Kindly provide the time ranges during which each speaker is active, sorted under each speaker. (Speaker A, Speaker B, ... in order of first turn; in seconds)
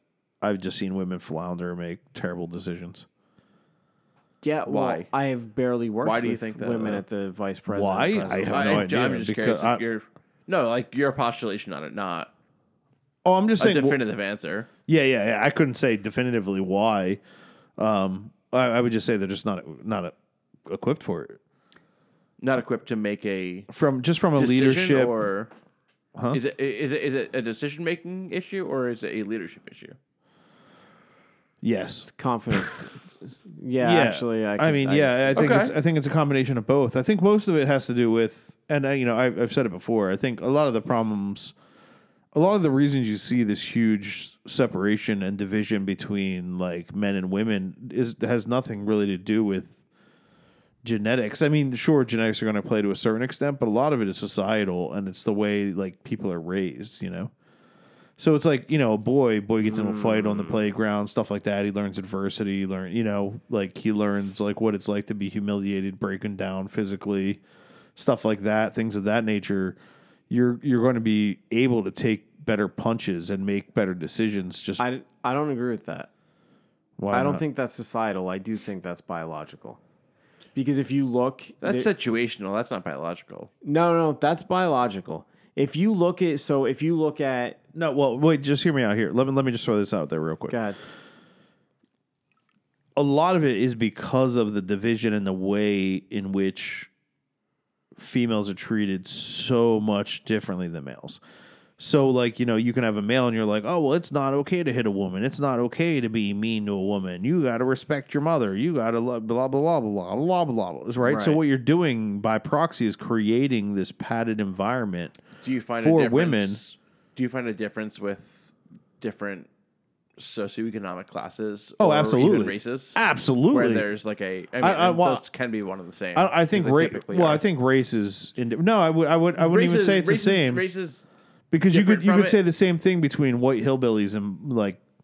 Speaker A: 0.4-3.0, 7.7-9.8, 13.2-14.0, 14.9-17.2, 17.8-20.1, 20.6-21.4, 23.7-25.2, 26.1-26.4, 31.6-32.1, 33.8-41.5, 42.3-49.8, 50.8-57.3, 58.2-67.4, 68.0-69.8, 70.3-74.8, 77.0-77.4, 87.7-90.5, 93.0-96.9, 98.0-101.2, 101.8-115.2, 115.8-116.6, 121.8-123.9, 124.6-125.2, 126.1-130.6, 131.5-134.8
Speaker B: 4.4-8.9, 32.0-35.5, 59.6-60.6, 74.8-76.1, 77.1-79.8, 80.5-81.9, 83.6-87.6, 90.5-90.8, 111.0-111.4
Speaker C: 4.7-5.1, 6.0-7.0, 8.5-12.3, 13.6-14.7, 22.4-23.7, 24.4-25.5, 26.3-29.9, 35.3-35.7, 81.6-83.5, 115.4-119.5, 120.2-123.0, 123.5-127.4, 129.3-131.1, 131.7-132.4